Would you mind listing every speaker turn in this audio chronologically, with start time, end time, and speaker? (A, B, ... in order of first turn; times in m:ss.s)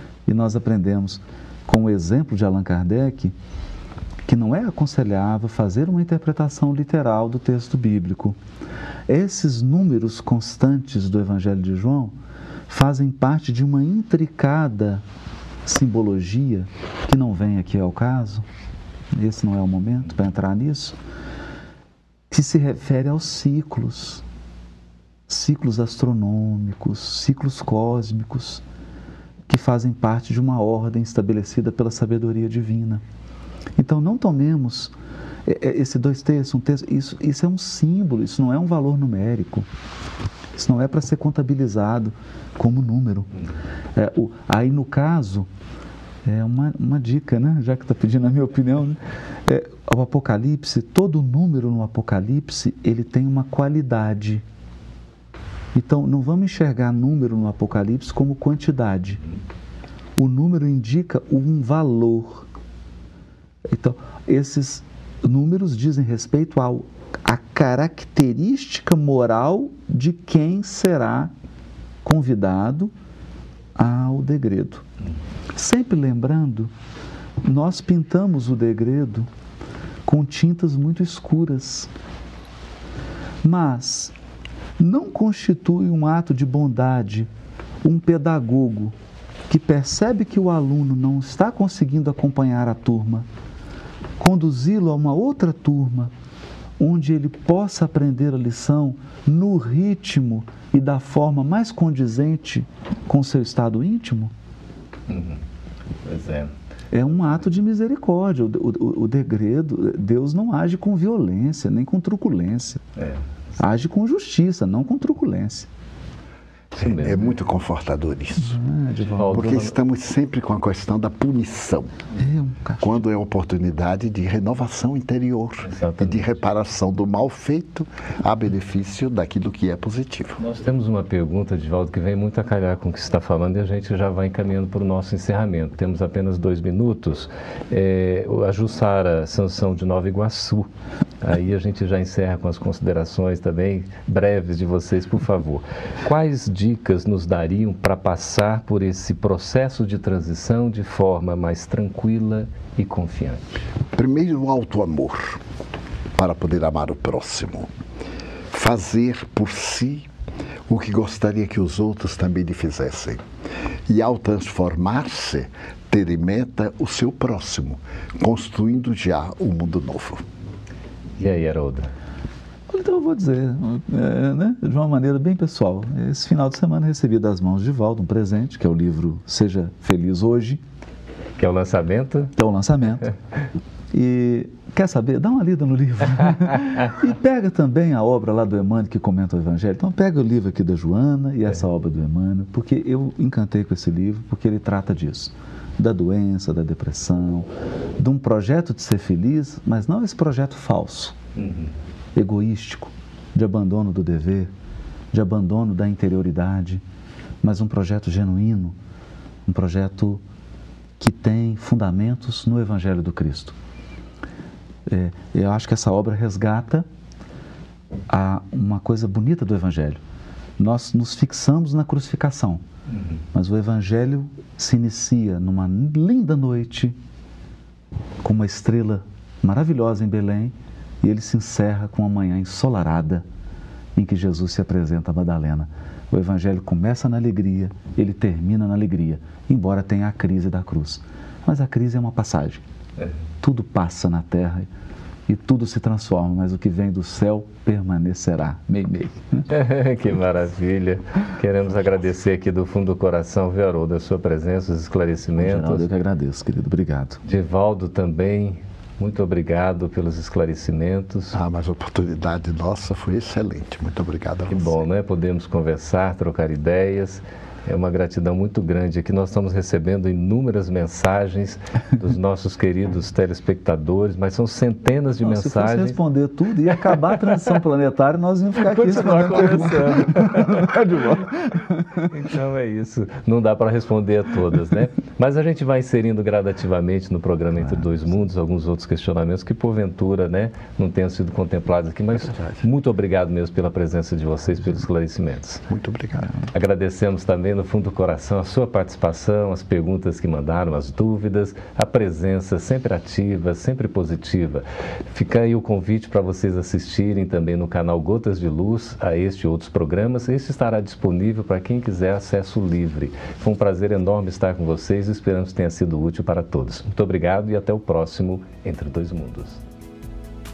0:00.3-0:03.4 A
0:04.3-0:08.4 A
0:09.1-0:12.1 A
0:12.7-0:15.0 A
0:15.7-0:18.5 A
0:19.1-0:21.0 A
0:22.3-0:24.2 A
0:25.3-0:28.6 A
0:29.5-0:33.0 A
0:33.8-0:34.9 A
0:35.5-0:39.7 A
0:40.6-0:43.3 A
0:44.0-0:45.5 A
0:46.2-0:54.4 A
0:55.7-0:59.2 A
1:00.2-1:02.5 A
1:03.7-1:11.3 A
1:12.0-1:12.9 A
1:13.8-1:14.9 A
1:15.6-1:16.7 A
1:17.4-1:19.3 A
1:20.1-1:21.9 A
1:23.4-1:24.1 A
1:24.8-1:27.3 A
1:27.8-1:28.9 A
1:29.5-1:33.3 A
1:34.2-1:36.1 A
1:36.8-1:44.3 A
1:45.1-1:45.4 B
1:46.0-1:46.5 B
1:46.9-1:52.8 A
1:53.0-1:53.2 B
1:53.6-1:55.7 A
1:56.7-1:57.3 B
1:56.8-1:58.6 C
1:58.4-1:59.7 A
1:59.2-1:59.7 B
1:59.3-2:01.9 C
2:02.2-2:03.0 A
2:02.8-2:10.4 C
2:05.6-2:06.3 B
2:10.4-2:20.7 B
2:21.2-2:33.6 B
2:34.0-2:35.4 C
2:36.2-2:37.7 C
2:38.5-2:40.1 C
2:40.7-2:43.2 C
2:43.9-2:50.2 C
2:51.2-2:51.9 B
2:52.7-3:00.6 A
3:01.4-3:02.3 B
3:02.4-3:03.1 A
3:03.9-3:21.2 A
3:21.4-3:21.7 B
3:22.2-3:24.5 A
3:25.1-3:26.8 A
3:27.4-3:28.8 A
3:29.5-3:30.2 A
3:31.0-3:33.6 A
3:34.9-3:36.9 A
3:38.1-3:40.0 A
3:40.6-3:42.6 A
3:43.3-3:47.0 A
3:48.2-3:53.2 A
3:54.0-4:02.6 A
4:03.4-4:04.7 A
4:05.3-4:09.5 A
4:09.5-4:15.8 B
4:15.4-4:17.2 A
4:17.2-4:21.4 B
4:21.3-4:24.9 C
4:24.5-4:36.0 B
4:35.2-4:42.1 A
4:36.8-4:37.2 B
4:38.6-4:41.2 B
4:42.0-4:55.7 B
4:55.7-4:56.3 C
4:56.5-5:19.6 B